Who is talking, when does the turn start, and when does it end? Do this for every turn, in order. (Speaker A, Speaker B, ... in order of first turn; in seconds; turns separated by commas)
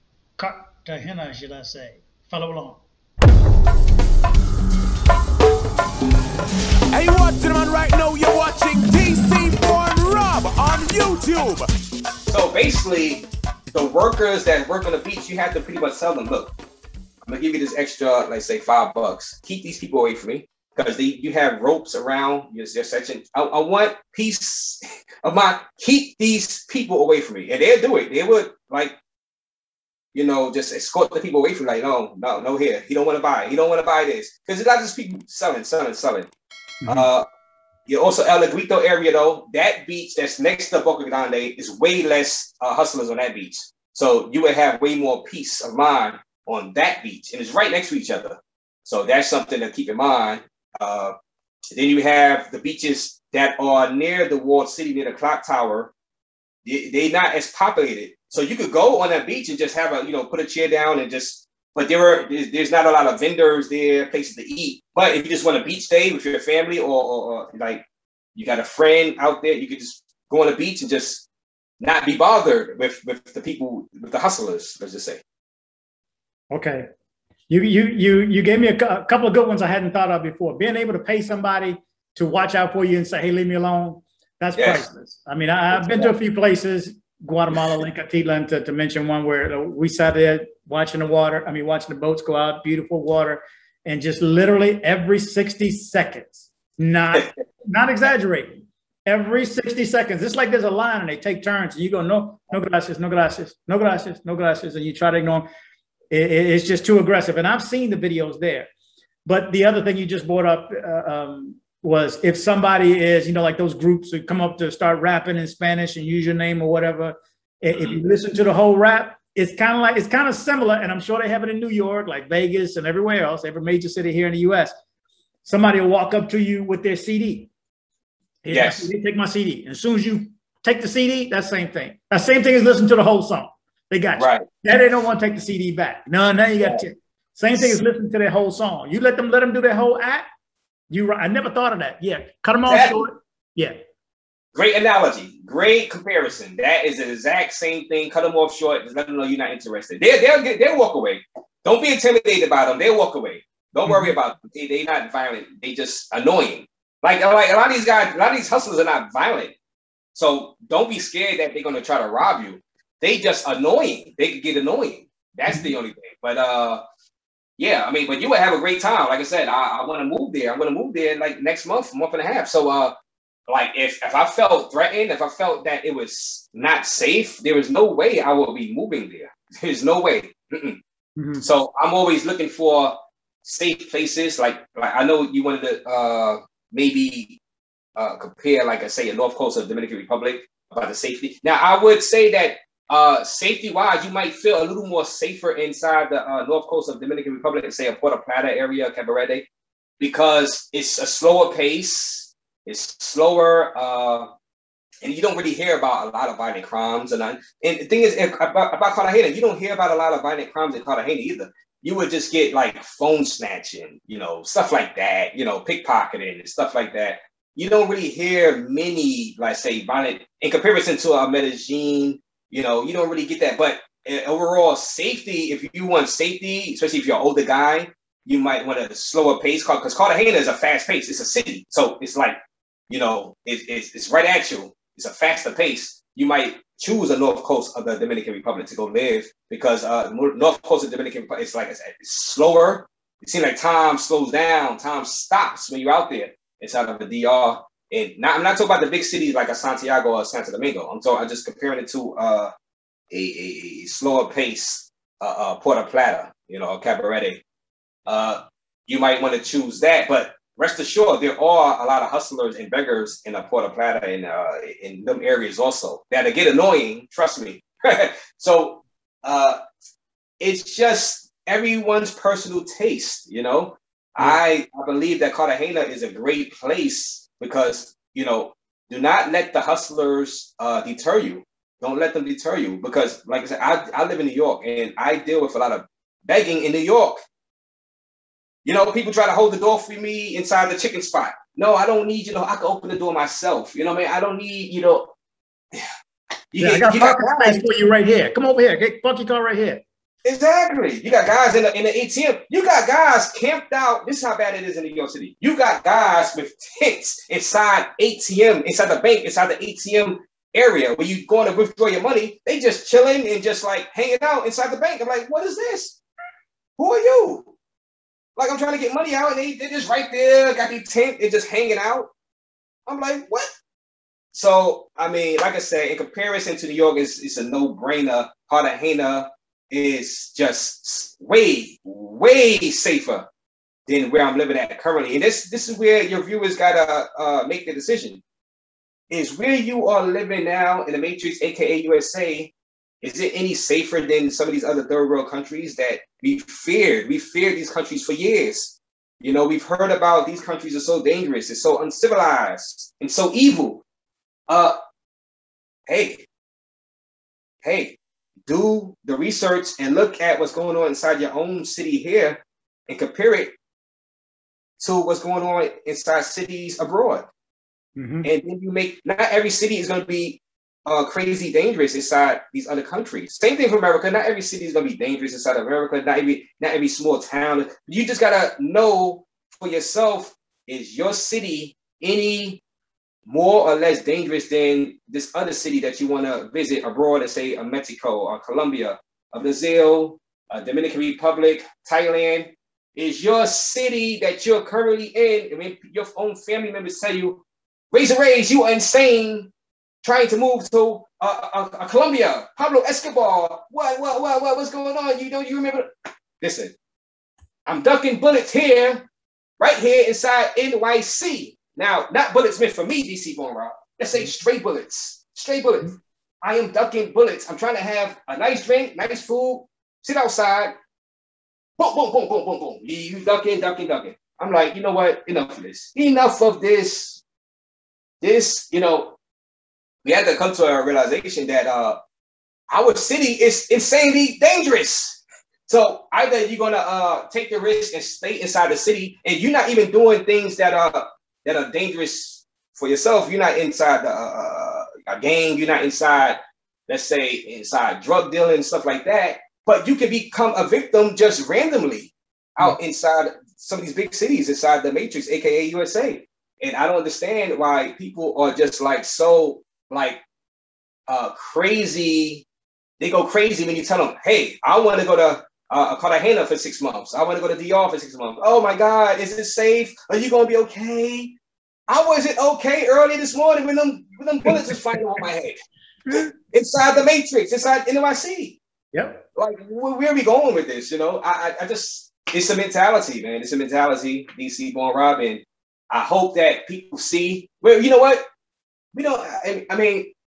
Speaker A: 0.4-2.8, Speaker B: 6.9-11.7, Speaker C: 12.3-16.5, Speaker C: 17.2-29.0, Speaker C: 30.1-36.3, Speaker C: 36.9-37.2, Speaker C: 37.9-51.1, Speaker C: 51.7-55.9, Speaker C: 56.6-67.8, Speaker C: 68.3-71.2, Speaker C: 71.8-75.2, Speaker A: 76.5-76.9, Speaker A: 77.5-105.5, Speaker C: 84.5-84.8, Speaker C: 85.7-86.1, Speaker A: 106.1-108.7, Speaker A: 109.2-124.7, Speaker A: 125.4-127.5, Speaker A: 128.4-140.2, Speaker C: 128.5-128.8, Speaker C: 134.2-134.4, Speaker A: 140.9-143.8, Speaker C: 142.7-143.1, Speaker C: 144.5-159.5, Speaker A: 153.8-154.1, Speaker C: 160.1-166.8, Speaker C: 167.6-172.9, Speaker C: 173.5-180.8, Speaker A: 181.2-181.4, Speaker C: 181.4-187.4, Speaker C: 187.9-199.5, Speaker C: 200.0-204.3, Speaker C: 205.0-232.4, Speaker C: 232.9-252.5, Speaker C: 253.1-257.4, Speaker C: 258.1-269.6, Speaker C: 270.4-287.2, Speaker C: 288.6-295.1, Speaker C: 296.5-297.6, Speaker A: 296.6-299.8, Speaker C: 300.2-316.0, Speaker C: 316.8-317.5, Speaker C: 318.4-322.1, Speaker C: 322.9-323.5, Speaker C: 324.3-333.3, Speaker C: 333.9-338.2, Speaker C: 339.1-353.8, Speaker C: 354.5-354.8, Speaker C: 355.9-356.2, Speaker C: 357.6-363.5, Speaker C: 364.8-367.2, Speaker A: 368.0-368.3, Speaker C: 368.2-382.6, Speaker C: 383.3-399.5, Speaker C: 400.0-405.9, Speaker C: 406.4-406.7, Speaker C: 407.6-409.0, Speaker C: 409.6-420.7, Speaker C: 421.8-427.2, Speaker C: 428.2-429.1, Speaker C: 430.0-432.0, Speaker C: 432.7-460.2, Speaker C: 461.1-462.4, Speaker C: 463.0-471.3, Speaker C: 471.9-475.6, Speaker C: 476.1-478.6, Speaker A: 478.9-479.2, Speaker C: 479.4-488.2, Speaker C: 488.9-490.1